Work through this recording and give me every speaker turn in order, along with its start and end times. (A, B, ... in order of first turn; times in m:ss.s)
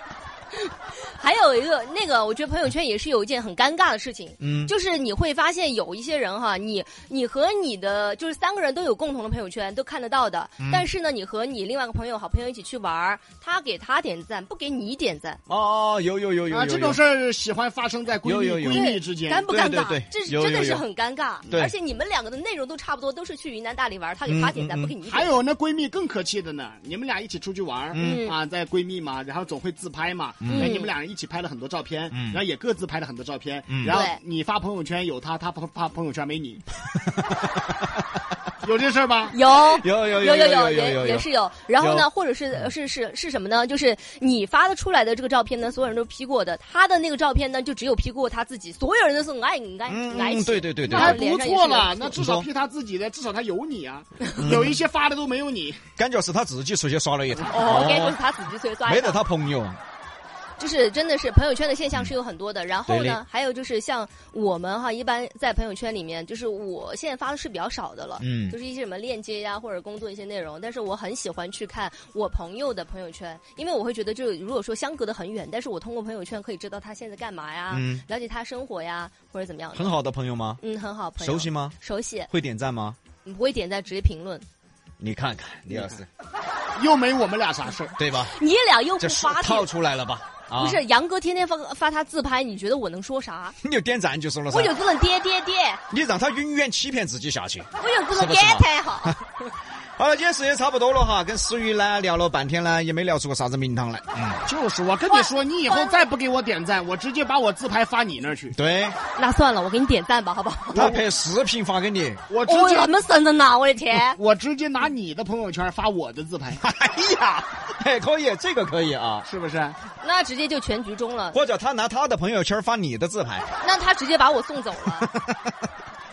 0:00.7-0:15.4 A
0:04.4-0:04.7 B
0:10.6-0:10.9 B
0:15.5-0:17.0 B
0:16.5-0:19.5 C
0:18.2-0:18.9 B
0:18.7-0:25.4 A
0:19.4-0:20.8 B
0:21.5-0:21.7 B
0:24.3-0:25.0 B
0:25.0-0:36.6 C
0:27.9-0:28.3 B
0:27.9-0:28.4 A
0:30.4-0:30.7 B
0:30.5-0:30.9 A
0:32.1-0:32.4 B
0:33.7-0:34.0 B
0:33.8-0:34.2 A
0:37.5-0:37.8 B
0:38.6-0:39.4 C
0:39.3-0:52.2 A
0:39.5-0:42.1 B
0:49.9-0:51.2 B
0:50.9-0:55.8 C
0:52.2-0:52.5 B
0:54.4-0:54.7 B
0:56.0-0:58.2 B
0:57.5-0:59.2 A
0:58.9-0:59.8 B
1:00.6-1:20.0 A
1:02.9-1:03.2 B
1:08.2-1:08.6 B
1:17.7-1:18.0 B
1:19.7-1:20.6 B
1:20.6-1:22.3 A
1:21.2-1:21.8 B
1:22.3-1:23.0 B
1:23.2-1:24.5 A
1:25.0-1:26.1 B
1:25.7-1:26.0 C
1:26.8-1:28.0 C
1:28.0-1:28.4 B
1:28.1-1:29.7 A
1:29.0-1:30.8 B
1:30.6-1:33.6 A
1:33.6-1:34.8 B
1:34.5-1:35.8 A
1:35.9-1:39.2 B
1:37.8-1:39.2 A
1:40.0-1:44.5 B
1:44.4-1:48.6 C
1:45.1-1:46.1 A
1:48.5-1:49.0 B
1:49.2-1:50.9 A
1:50.7-1:52.2 B
1:50.7-1:51.0 C
1:52.3-1:52.9 C
1:52.4-1:54.2 A
1:54.0-1:56.6 C
1:56.6-1:59.3 B
1:59.2-1:59.8 C
2:00.0-2:01.4 A
2:01.3-2:03.5 B
2:03.6-2:05.1 A
2:05.0-2:05.4 B